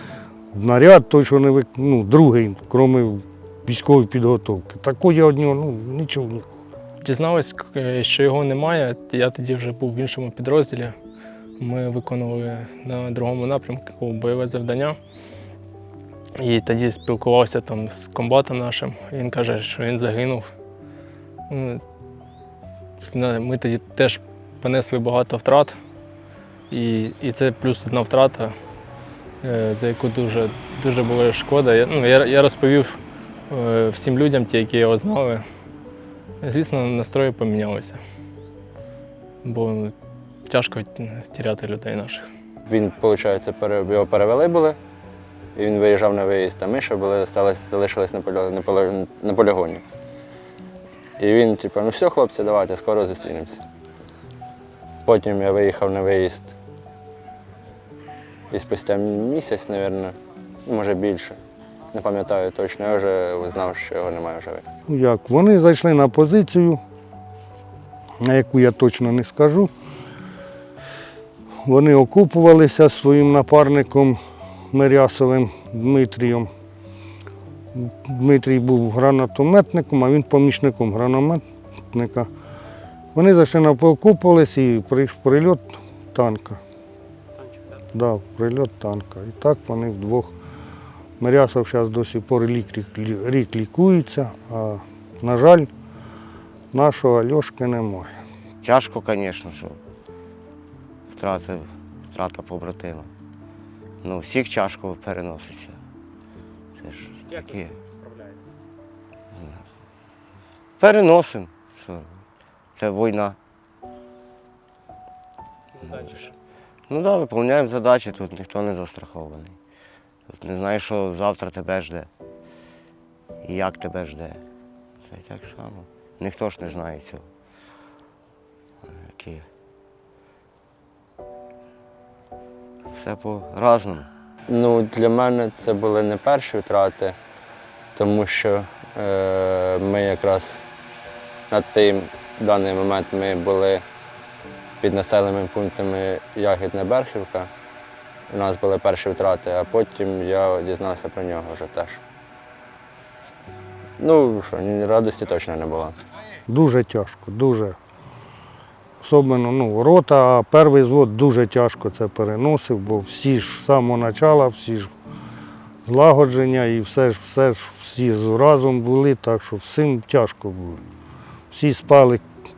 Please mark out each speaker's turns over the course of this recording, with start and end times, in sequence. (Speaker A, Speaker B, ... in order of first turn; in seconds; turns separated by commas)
Speaker A: 0.5-6.6, Speaker B: 7.0-10.9, Speaker B: 11.6-15.0, Speaker B: 16.4-20.5, Speaker B: 21.5-21.8, Speaker B: 23.0-25.8, Speaker B: 26.7-28.5, Speaker B: 29.4-33.0, Speaker B: 33.5-35.4, Speaker B: 36.4-38.0, Speaker B: 39.4-39.9, Speaker B: 40.5-42.3, Speaker C: 42.6-44.8, Speaker C: 45.5-49.8, Speaker C: 51.2-53.6, Speaker C: 55.0-56.5, Speaker C: 58.5-61.4, Speaker C: 61.9-64.6, Speaker A: 64.9-66.8, Speaker A: 68.2-69.7, Speaker A: 71.6-74.2, Speaker A: 74.7-76.5, Speaker A: 77.7-82.3, Speaker A: 83.1-86.6, Speaker D: 87.3-87.8, Speaker A: 87.9-90.3, Speaker A: 91.2-95.7, Speaker A: 96.7-98.1, Speaker E: 98.6-99.8, Speaker E: 101.1-103.1, Speaker E: 104.0-105.8, Speaker E: 106.8-107.7, Speaker D: 107.3-108.6, Speaker E: 109.3-109.6, Speaker E: 110.8-112.2, Speaker E: 112.8-113.4, Speaker D: 115.7-116.4, Speaker E: 115.8-116.3, Speaker E: 116.9-119.6, Speaker E: 120.3-122.1, Speaker E: 123.4-124.4, Speaker E: 125.0-127.3, Speaker E: 128.8-129.5, Speaker E: 132.9-134.1, Speaker C: 134.5-137.2, Speaker C: 137.9-140.6, Speaker C: 141.5-143.8, Speaker C: 144.8-147.5, Speaker C: 148.3-152.0, Speaker C: 154.0-155.9, Speaker A: 156.5-157.8, Speaker A: 159.0-164.9, Speaker A: 165.8-170.8, Speaker A: 171.5-172.2